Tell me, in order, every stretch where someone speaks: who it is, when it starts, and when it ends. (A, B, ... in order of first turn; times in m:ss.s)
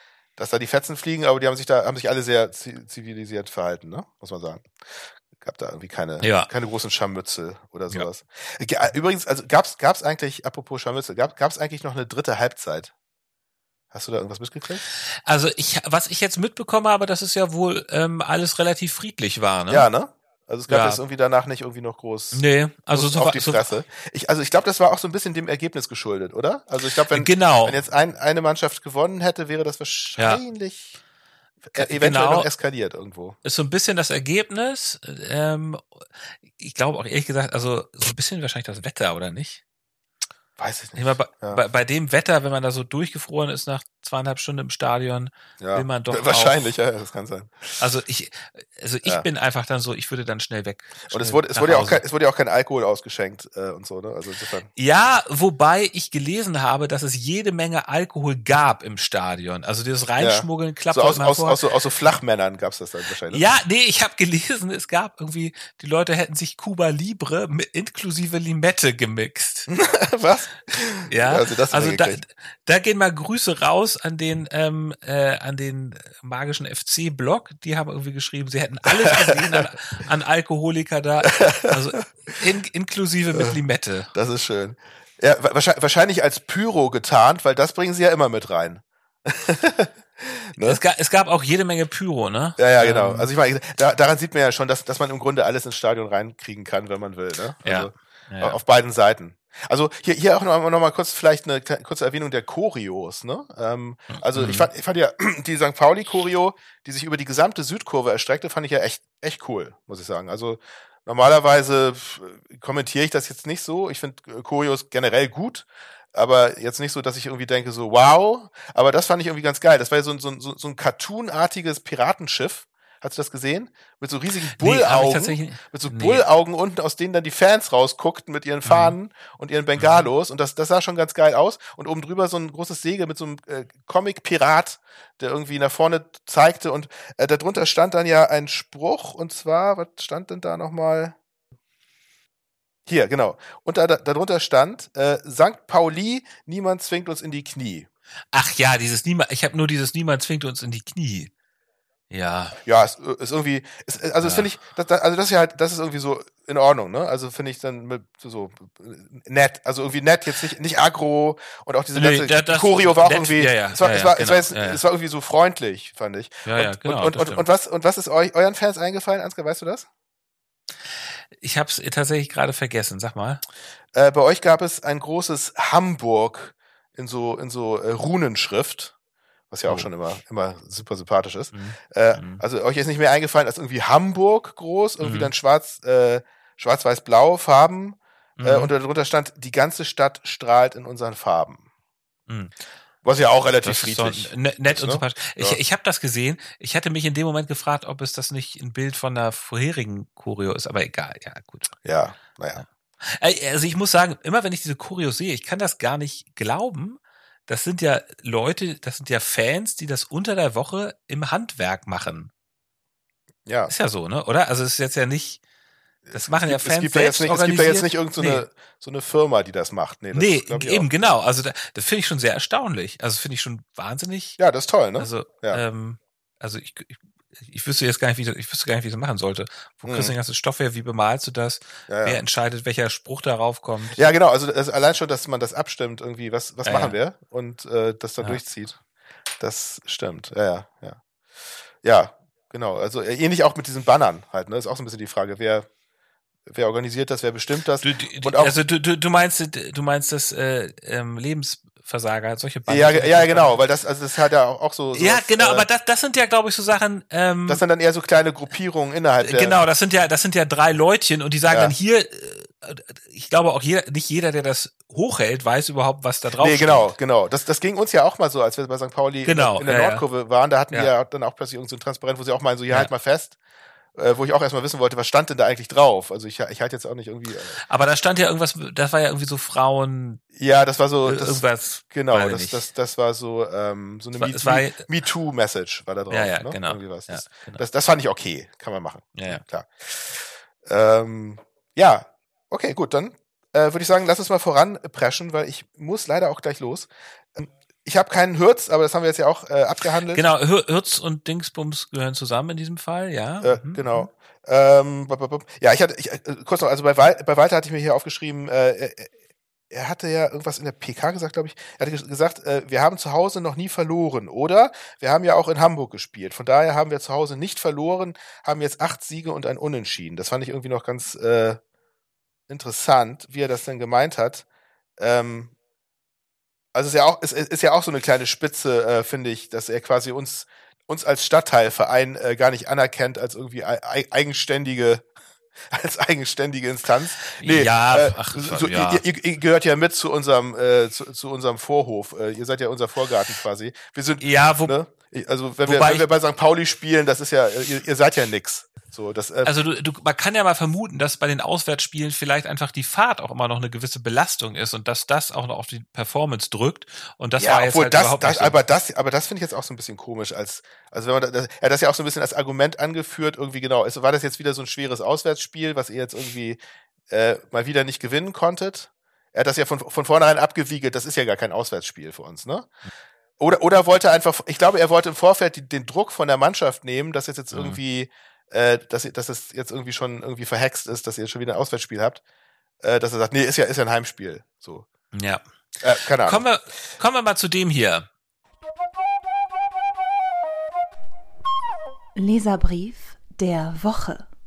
0:00.4-0:04.7 A
0:05.3-0:12.9 A
0:06.2-0:06.5 B
0:13.9-0:14.8 A
0:15.0-0:19.9 B
0:19.7-0:31.0 A
0:20.7-0:21.0 B
0:22.3-0:23.7 B
0:27.1-0:27.8 B
0:30.2-0:30.4 B
0:31.6-0:33.4 A
0:31.7-0:32.5 B
0:33.4-0:39.6 B
0:40.6-0:41.6 A
0:41.0-0:46.7 B
0:45.6-0:47.8 A
0:47.8-0:52.0 B
0:51.1-0:54.7 A
0:54.8-1:01.6 B
1:00.2-1:03.4 A
1:03.3-1:09.7 B
1:09.7-1:12.2 A
1:11.1-1:24.1 B
1:19.0-1:19.4 A
1:21.3-1:21.8 A
1:24.1-1:30.8 A
1:30.6-1:33.3 B
1:32.6-2:21.2 A
1:37.6-1:38.6 B
1:44.1-1:44.7 B
2:04.5-2:06.2 B
2:08.6-2:09.0 B
2:09.8-2:10.0 B
2:22.9-2:27.9 A
2:28.3-2:31.3 B
2:32.1-2:32.6 B
2:32.6-2:49.9 A
2:34.2-2:34.5 B
2:41.9-2:44.8 B
2:46.4-2:47.4 B
2:51.4-2:53.4 B
2:53.9-2:58.9 A
2:59.5-3:11.6 A
3:01.5-3:02.4 B
3:05.0-3:05.3 B
3:08.4-3:08.7 B
3:13.0-3:15.6 A
3:13.6-3:21.8 B
3:21.8-3:22.6 A
3:22.6-3:32.3 B
3:33.4-3:33.7 A
3:33.7-3:35.4 B
3:36.1-3:41.1 A
3:36.1-3:38.4 B
3:40.1-3:44.4 B
3:44.4-3:45.6 A
3:45.0-3:54.1 B
3:49.9-3:50.1 A
3:51.9-3:52.2 A
3:53.9-3:58.8 A
3:56.6-3:57.0 B
3:59.4-4:01.0 A
4:01.8-4:05.7 A
4:06.5-4:08.6 A
4:07.8-4:13.6 B
4:12.7-4:15.6 A
4:14.9-4:17.6 B
4:17.5-4:19.6 A
4:19.2-4:26.9 B
4:26.3-4:33.4 A
4:29.3-4:30.0 B
4:33.9-4:37.6 A
4:37.7-4:40.2 B
4:40.3-5:00.2 A
4:41.0-4:42.6 B
4:44.2-4:44.9 B
4:46.1-4:47.6 B
4:49.1-4:49.4 B
5:00.1-5:04.1 B
5:03.4-5:09.1 A
5:09.7-5:21.6 A
5:22.5-5:24.4 A
5:25.0-5:25.5 A
5:26.7-5:35.0 A
5:35.7-5:49.5 A
5:37.3-5:39.0 B
5:44.2-5:44.7 B
5:45.6-5:46.0 B
5:49.4-5:58.6 B
5:57.4-6:06.6 A
6:07.1-6:12.7 A
6:13.4-6:22.2 A
6:17.5-6:17.8 B
6:22.8-6:24.9 A
6:25.1-6:25.4 B
6:25.8-6:26.4 A
6:26.2-6:28.1 B
6:32.2-6:34.3 C